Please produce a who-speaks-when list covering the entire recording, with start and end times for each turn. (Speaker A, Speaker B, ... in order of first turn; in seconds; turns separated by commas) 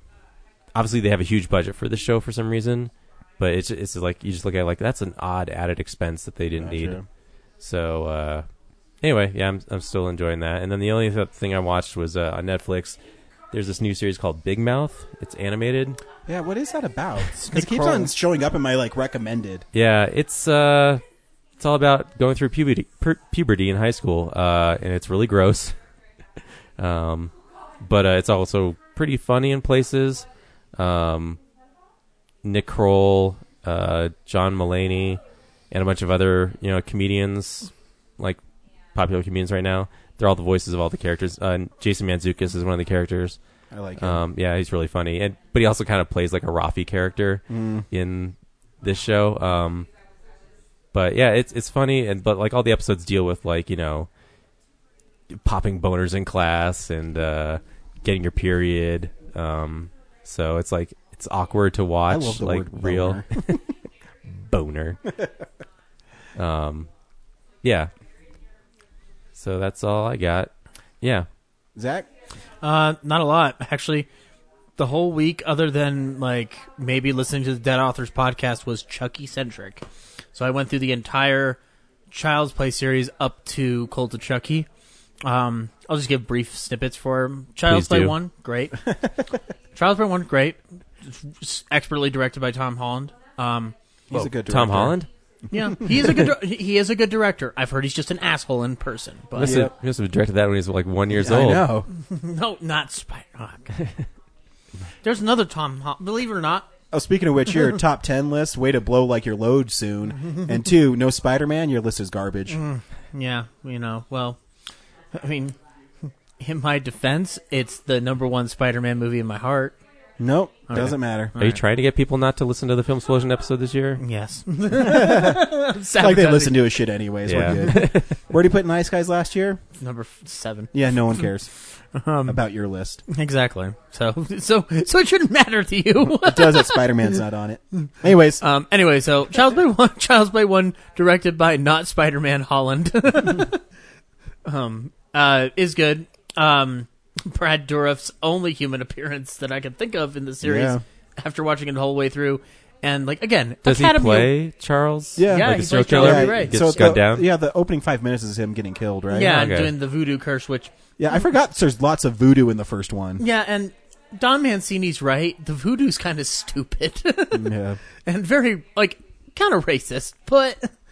Speaker A: 0.7-7.0, Speaker B: 6.6-7.1, Speaker A: 7.6-8.5, Speaker A: 9.0-13.0, Speaker A: 13.5-16.0, Speaker B: 16.3-19.6, Speaker C: 17.4-18.1, Speaker A: 19.7-21.0, Speaker A: 21.6-25.8, Speaker A: 26.8-31.4, Speaker A: 32.4-38.4, Speaker A: 38.9-43.4, Speaker B: 43.7-44.2, Speaker A: 44.0-49.9, Speaker B: 47.5-47.9, Speaker A: 50.9-54.1, Speaker A: 55.3-63.6, Speaker B: 62.1-63.4, Speaker A: 64.3-65.0, Speaker A: 66.3-66.9, Speaker A: 67.6-67.9, Speaker A: 69.4-71.3, Speaker B: 71.8-72.1, Speaker C: 72.6-74.1, Speaker C: 74.8-81.6, Speaker C: 82.1-84.7, Speaker C: 85.2-88.9, Speaker A: 87.7-88.2, Speaker C: 89.8-94.4, Speaker B: 94.1-95.0, Speaker A: 94.4-95.1, Speaker C: 95.5-99.6, Speaker B: 99.3-99.7, Speaker A: 99.4-101.7, Speaker B: 101.1-101.9, Speaker C: 102.0-103.7, Speaker A: 103.8-104.1, Speaker C: 105.0-106.7, Speaker B: 106.9-112.6, Speaker C: 112.5-114.4, Speaker C: 115.1-115.5, Speaker C: 116.4-119.8, Speaker B: 120.2-121.3, Speaker C: 120.7-121.6, Speaker A: 121.4-124.0, Speaker C: 124.0-126.8, Speaker B: 124.7-129.6, Speaker A: 127.2-128.2, Speaker C: 129.8-131.2, Speaker B: 130.7-131.5, Speaker C: 131.9-132.4, Speaker B: 132.3-133.0, Speaker C: 133.1-136.9, Speaker B: 136.1-138.4, Speaker C: 138.4-143.6, Speaker C: 144.4-154.3, Speaker B: 150.4-150.8, Speaker A: 153.7-157.3, Speaker B: 155.2-159.3, Speaker C: 155.2-156.8, Speaker C: 159.1-160.7, Speaker A: 159.2-159.8, Speaker B: 161.0-163.2, Speaker C: 163.2-170.7, Speaker B: 167.3-167.8